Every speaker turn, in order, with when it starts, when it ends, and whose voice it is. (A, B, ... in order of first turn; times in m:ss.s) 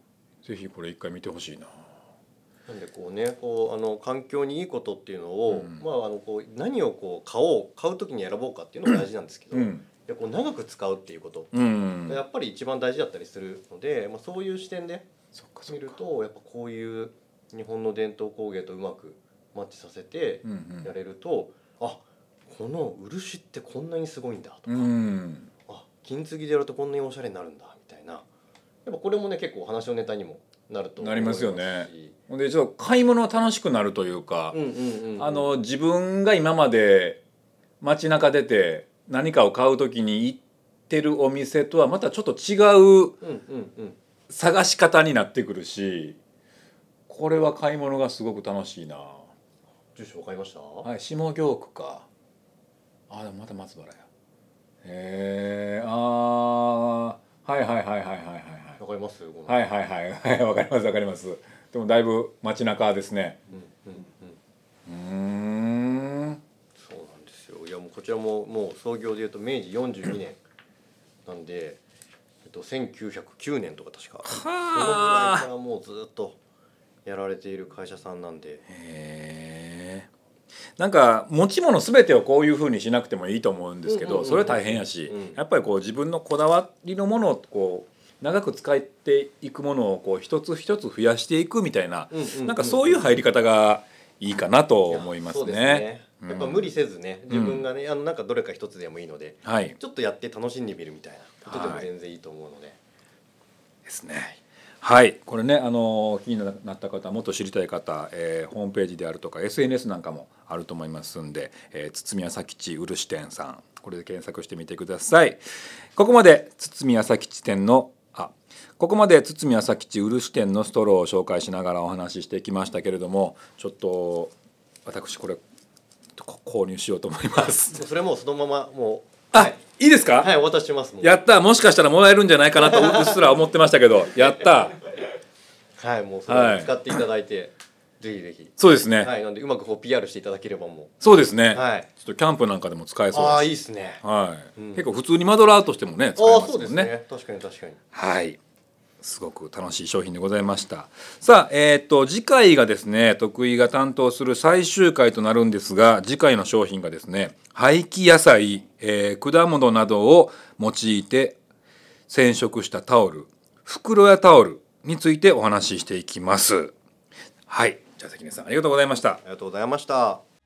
0:00.4-0:01.8 A
0:02.7-0:11.5 B
0:05.5-0:05.8 A
0:09.5-0:09.8 A
0:11.5-0:12.2 A
0:12.1-0:15.1 B
0:15.3-0:16.0 A
0:15.7-0:24.9 B
0:20.4-0:20.9 A
0:24.7-0:25.5 A
0:25.7-0:28.2 B
0:28.8-0:32.2 B
0:31.0-0:34.6 A
0:34.5-0:35.5 B
0:35.2-0:37.2 A
0:37.8-0:43.2 A
0:43.2-0:44.0 B
0:44.3-0:46.2 A
0:47.1-0:49.3 A
0:50.0-0:50.9 B
0:50.8-0:52.0 A
0:53.1-0:54.0 A
0:54.8-0:58.8 A
0:58.8-0:59.6 B
0:59.5-1:03.4 A
1:03.5-1:04.4 B
1:04.9-1:06.4 A
1:06.8-1:10.4 B
1:11.3-1:11.8 B
1:12.4-1:16.4 B
1:14.3-1:15.5 A
1:17.0-1:18.6 B
1:18.7-1:20.1 A
1:20.8-1:36.7 A
1:23.9-1:25.4 B
1:32.1-1:33.2 B
1:34.9-1:42.8 B
1:37.3-1:37.7 A
1:39.4-1:39.8 A
1:41.5-1:41.9 A
1:43.9-1:55.4 A
1:56.0-2:04.3 A
2:04.8-2:05.4 A
2:06.2-2:07.8 A
2:07.4-2:09.6 B
2:09.3-2:10.3 A
2:10.2-2:11.2 B
2:11.0-2:14.8 A
2:12.6-2:13.2 B
2:15.8-2:20.9 B
2:16.3-2:17.0 A
2:18.6-2:19.1 A
2:21.0-2:23.5 A
2:21.5-2:21.9 B
2:23.1-2:24.0 B
2:24.0-2:26.9 A
2:24.6-2:24.9 B
2:26.2-2:27.8 B
2:27.9-2:28.4 A
2:29.0-2:41.4 A
2:42.1-2:46.7 A
2:47.5-2:49.2 A
2:49.2-2:50.2 B